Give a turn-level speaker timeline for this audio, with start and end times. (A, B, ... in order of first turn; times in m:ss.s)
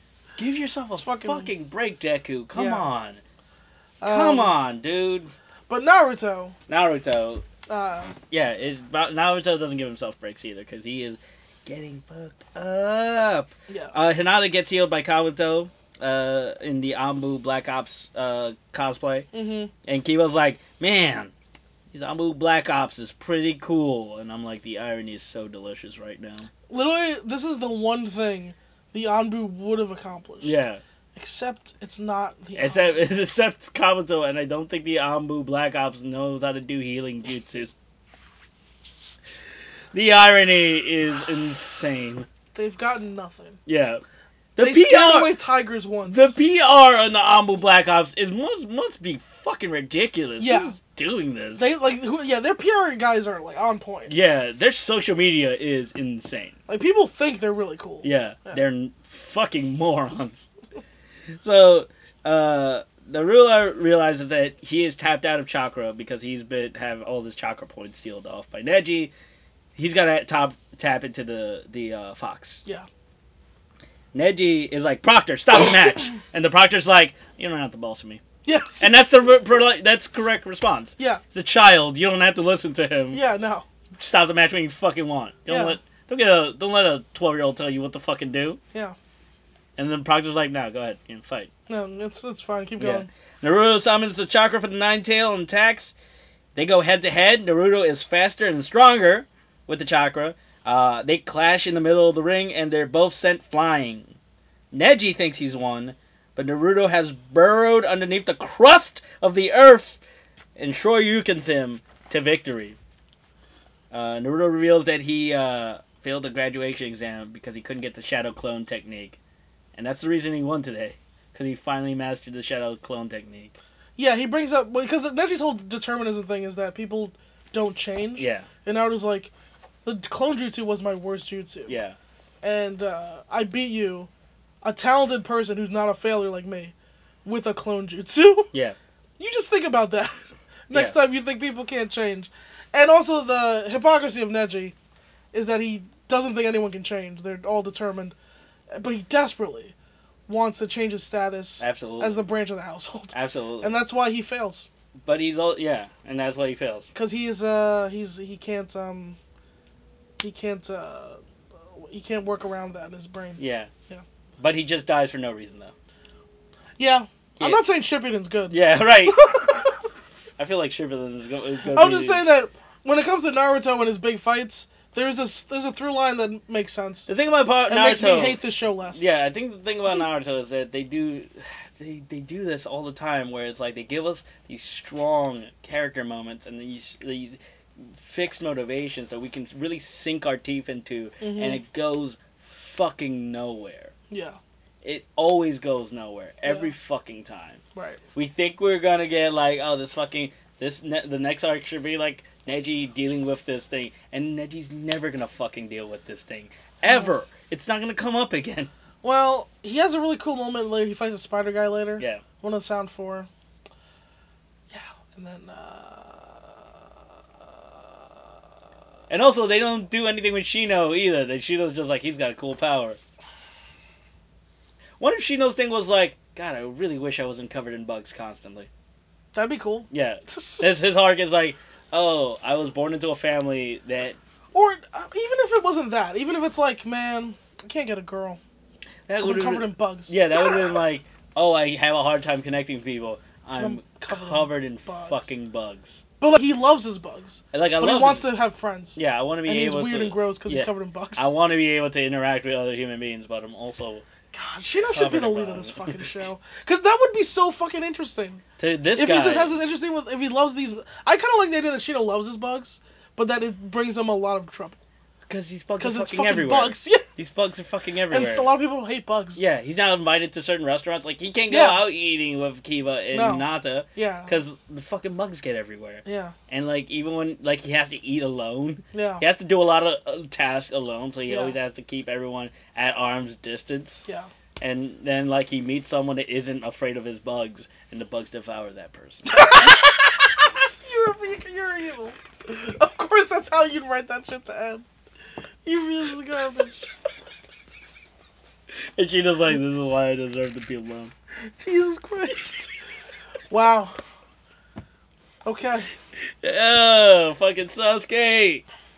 0:00.4-0:03.2 A
0:00.9-0:01.5 B
0:02.5-0:02.9 B
0:04.0-0:04.6 B
0:04.0-0:05.3 A
0:05.7-0:06.5 B
0:06.7-0:07.4 A
0:07.7-0:08.1 B
0:08.3-0:19.3 A
0:13.7-0:13.9 B
0:19.3-0:19.7 B
0:19.8-0:21.3 A
0:21.9-0:26.5 A
0:26.7-0:30.5 B
0:30.4-0:30.8 A
0:31.1-0:33.0 B
0:32.5-0:37.7 A
0:39.9-0:42.3 A
0:42.5-0:43.6 B
0:43.6-0:44.0 A
0:44.6-0:45.3 A
0:44.6-0:46.3 B
0:46.1-0:51.7 A
0:50.4-0:50.7 B
0:51.6-0:54.1 B
0:54.1-0:56.5 A
0:56.7-0:58.6 B
0:58.0-1:00.5 A
1:01.4-1:09.1 A
1:09.8-1:12.6 A
1:14.1-1:18.2 A
1:18.4-1:18.9 B
1:18.8-1:23.2 A
1:23.1-1:23.6 B
1:24.0-1:28.6 A
1:25.5-1:25.8 B
1:29.8-1:31.5 A
1:31.7-1:33.1 B
1:32.8-1:35.9 A
1:36.5-1:44.1 A
1:44.7-1:50.0 A
1:50.6-1:52.8 A
1:53.9-1:59.2 A
1:59.8-2:03.5 A
2:04.0-2:09.3 B
2:08.2-2:08.5 A
2:09.8-2:11.8 B
2:11.7-2:12.0 A
2:12.4-2:14.1 B
2:14.6-2:16.7 B
2:17.2-2:18.5 B
2:19.2-2:20.1 B
2:20.7-2:24.7 B
2:25.3-2:28.1 B
2:28.7-2:29.7 B
2:30.3-2:34.7 B
2:31.6-2:32.2 A
2:33.1-2:33.7 A
2:35.0-2:36.9 A
2:36.9-2:39.2 B
2:40.2-2:44.0 B
2:43.4-2:43.7 A
2:44.4-2:45.7 A
2:46.8-2:49.7 B
2:48.5-2:49.4 A
2:50.4-2:52.2 A
2:51.7-2:57.1 B
2:57.1-2:58.4 A
2:57.7-2:59.0 B
2:58.9-3:07.4 A
3:08.0-3:13.9 A
3:11.2-3:11.6 B
3:14.1-3:14.4 B
3:14.8-3:17.6 A
3:17.7-3:18.0 B
3:18.1-3:28.7 A
3:29.0-3:33.3 B
3:34.7-3:36.7 B
3:39.1-3:43.0 A
3:45.0-3:48.7 A
3:49.3-3:50.7 B
3:49.9-3:54.2 A
3:54.5-3:58.4 B
3:59.1-4:06.0 A
3:59.2-4:00.7 B
4:03.6-4:05.3 B
4:06.2-4:11.3 B
4:07.5-4:08.3 A
4:09.0-4:14.0 A
4:14.3-4:18.4 B
4:14.9-4:16.0 A
4:18.6-4:19.5 A
4:19.0-4:24.8 B
4:25.3-4:28.5 A
4:25.8-4:27.0 B
4:28.1-4:29.4 B
4:29.4-4:44.0 A
4:31.5-4:31.8 B
4:33.1-4:34.3 B
4:36.0-4:36.3 B
4:38.9-4:39.2 B
4:41.3-4:41.5 B
4:44.6-4:49.7 A
4:49.3-4:54.8 B
4:55.6-4:56.9 B
4:59.0-5:01.1 A
5:01.6-5:02.7 B
5:03.5-5:03.9 B
5:05.4-5:05.9 B
5:06.4-5:08.6 A